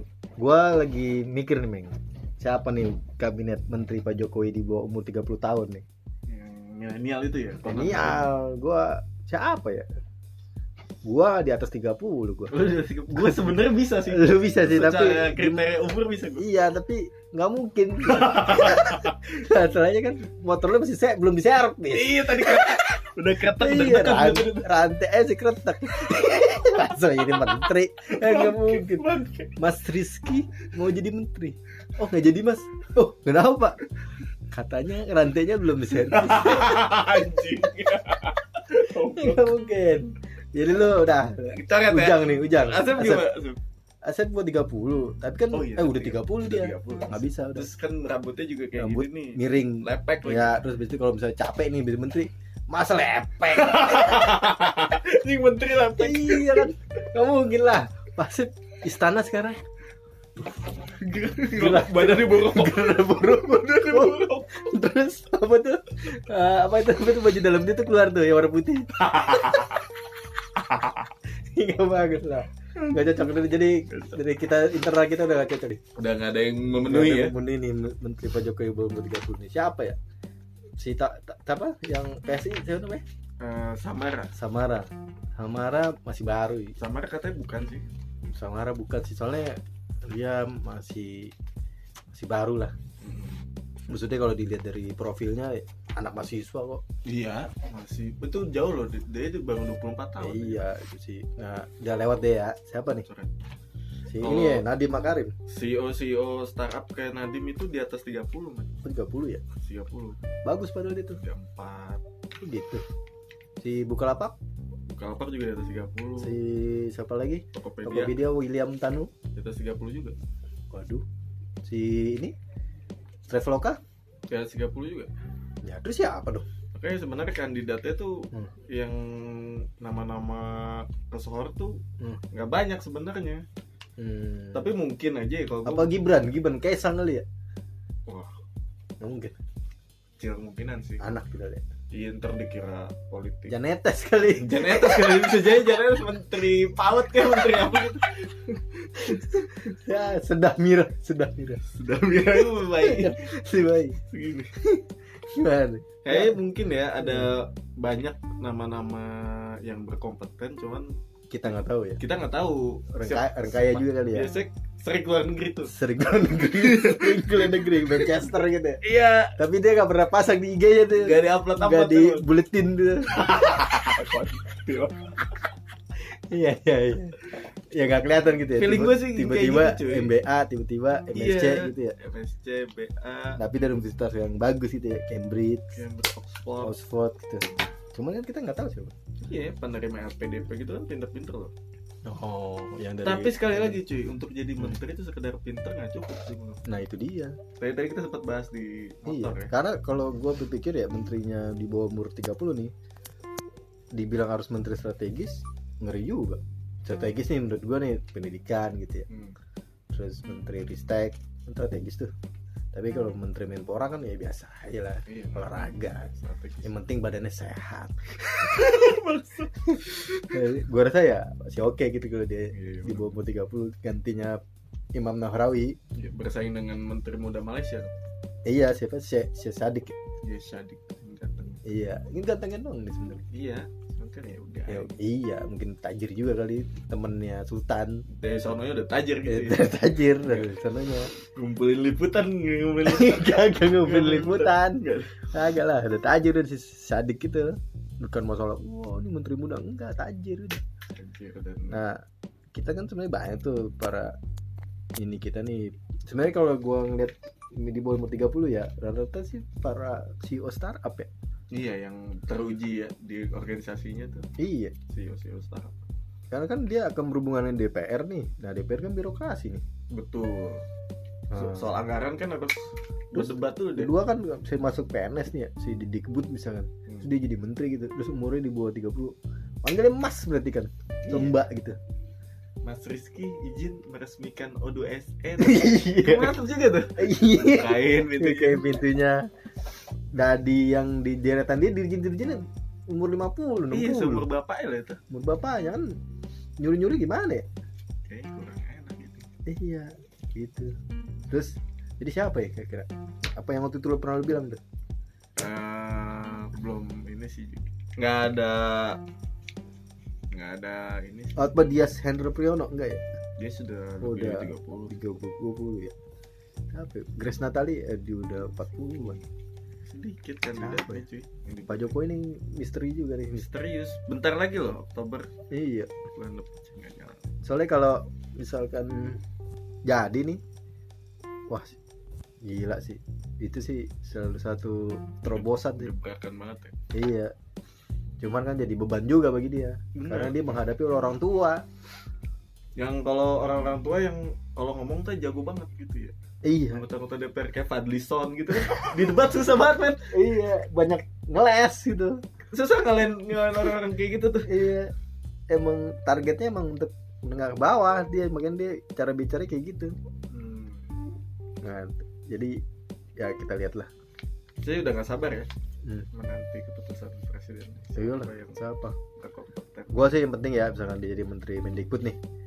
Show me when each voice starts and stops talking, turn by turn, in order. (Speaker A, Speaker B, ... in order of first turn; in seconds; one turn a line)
Speaker A: 0.4-5.8
Speaker B: 6.3-8.3
Speaker A: 7.6-9.9
Speaker A: 11.1-15.7
Speaker B: 12.5-16.4
Speaker A: 16.4-22.9
Speaker B: 18.1-19.2
Speaker B: 21.9-24.7
Speaker A: 23.5-29.1
Speaker B: 26.0-26.6
Speaker B: 27.5-29.6
Speaker A: 29.6-33.8
Speaker A: 34.5-36.9
Speaker B: 36.0-39.5
Speaker A: 39.1-43.3
Speaker B: 41.5-43.6
Speaker A: 44.0-47.7
Speaker B: 45.5-50.6
Speaker A: 48.8-54.0
Speaker B: 53.5-56.7
Speaker A: 56.0-59.6
Speaker B: 60.9-64.5
Speaker A: 61.6-69.0
Speaker B: 69.0-69.9
Speaker B: 70.6-71.1
Speaker A: 71.5-75.8
Speaker B: 73.9-74.2
Speaker B: 76.0-77.3
Speaker A: 76.9-80.0
Speaker A: 80.8-83.0
Speaker B: 83.4-84.3
Speaker A: 84.3-86.8
Speaker B: 86.8-87.9
Speaker A: 88.3-91.3
Speaker A: 92.1-92.7
Speaker B: 93.0-93.5
Speaker A: 93.9-96.8
Speaker B: 97.1-100.7
Speaker A: 100.2-103.1
Speaker B: 103.1-103.3
Speaker A: 104.1-105.3
Speaker B: 104.2-104.7
Speaker B: 105.5-108.7
Speaker A: 108.8-109.4
Speaker B: 109.6-110.2
Speaker A: 110.4-111.2
Speaker B: 111.2-112.0
Speaker A: 112.4-112.8
Speaker A: 113.6-114.4
Speaker B: 114.9-116.4
Speaker A: 116.2-119.1
Speaker B: 117.5-118.2
Speaker B: 119.3-120.2
Speaker A: 120.7-121.0
Speaker A: 121.7-122.3
Speaker A: 123.3-123.8
Speaker B: 124.3-125.1
Speaker A: 125.6-126.5
Speaker B: 126.8-131.8
Speaker B: 132.3-133.4
Speaker A: 134.0-134.7
Speaker B: 134.5-136.0
Speaker A: 135.7-137.2
Speaker A: 139.0-139.3
Speaker B: 140.2-141.1
Speaker A: 141.0-141.6
Speaker B: 141.9-143.6
Speaker A: 143.5-145.5
Speaker B: 144.5-149.7
Speaker A: 149.2-151.6
Speaker B: 151.7-153.2
Speaker A: 152.8-154.0
Speaker B: 154.1-154.5
Speaker A: 154.6-156.4
Speaker B: 156.0-160.9
Speaker A: 157.0-157.3
Speaker A: 161.3-162.0
Speaker B: 162.0-165.8
Speaker A: 162.9-164.3
Speaker A: 165.7-168.8
Speaker B: 166.4-169.3
Speaker A: 169.4-173.2
Speaker B: 171.0-172.3
Speaker B: 173.2-175.4
Speaker A: 176.3-177.2
Speaker A: 177.7-181.9
Speaker B: 178.6-180.2
Speaker B: 181.1-183.4
Speaker A: 183.4-185.8
Speaker B: 185.7-186.8
Speaker A: 186.6-188.9
Speaker B: 189.2-191.5
Speaker A: 192.1-193.8
Speaker B: 193.0-196.6
Speaker A: 196.7-197.4
Speaker B: 197.6-199.5
Speaker A: 199.1-202.7
Speaker A: 203.9-209.1
Speaker A: 209.9-212.1
Speaker A: 212.7-216.1
Speaker B: 215.1-216.7
Speaker A: 216.6-218.1
Speaker B: 218.3-220.4
Speaker A: 220.3-224.4
Speaker B: 222.5-223.2
Speaker A: 224.9-225.8
Speaker B: 226.0-227.9
Speaker A: 228.5-230.0
Speaker B: 230.2-231.6
Speaker A: 231.7-233.3
Speaker B: 233.3-235.0
Speaker A: 234.7-238.1
Speaker B: 238.1-240.5
Speaker A: 239.3-241.1
Speaker B: 241.3-245.3
Speaker A: 242.8-250.6
Speaker B: 250.9-251.8
Speaker A: 251.7-252.0
Speaker A: 252.5-254.2
Speaker A: 255.0-261.1
Speaker B: 261.5-264.3
Speaker A: 264.4-264.8
Speaker B: 264.9-265.8
Speaker A: 266.3-269.6
Speaker B: 269.9-270.6
Speaker A: 271.3-271.7
Speaker B: 271.3-273.9
Speaker A: 273.1-281.8
Speaker B: 281.1-281.4
Speaker B: 282.6-288.7
Speaker A: 285.4-286.4
Speaker A: 287.0-289.3
Speaker A: 290.1-294.3
Speaker B: 293.7-295.0
Speaker A: 295.1-295.9
Speaker A: 296.6-297.5
Speaker B: 298.1-299.3
Speaker A: 299.5-300.7
Speaker A: 301.3-304.6
Speaker B: 305.4-309.0
Speaker B: 310.3-311.6
Speaker A: 311.4-313.0
Speaker B: 313.4-314.9
Speaker A: 314.0-315.9
Speaker A: 316.7-319.2
Speaker B: 319.9-321.9
Speaker A: 320.6-321.0
Speaker A: 321.7-323.5
Speaker B: 323.3-325.3
Speaker A: 325.5-326.0
Speaker B: 326.1-327.2
Speaker A: 327.4-329.2
Speaker A: 329.9-330.4
Speaker A: 331.5-331.8
Speaker A: 332.4-335.9
Speaker B: 335.3-336.7
Speaker A: 336.9-337.3
Speaker A: 338.2-341.6
Speaker B: 340.0-340.4
Speaker B: 342.8-346.1
Speaker A: 346.4-346.9
Speaker B: 346.7-350.1
Speaker A: 350.1-352.2
Speaker B: 352.5-354.5
Speaker A: 354.5-354.9
Speaker A: 355.5-359.9
Speaker B: 360.3-360.9
Speaker A: 361.6-362.6
Speaker A: 363.2-363.9
Speaker B: 364.6-365.5
Speaker B: 366.1-368.6
Speaker A: 368.0-369.0
Speaker B: 369.2-370.1
Speaker A: 369.9-372.2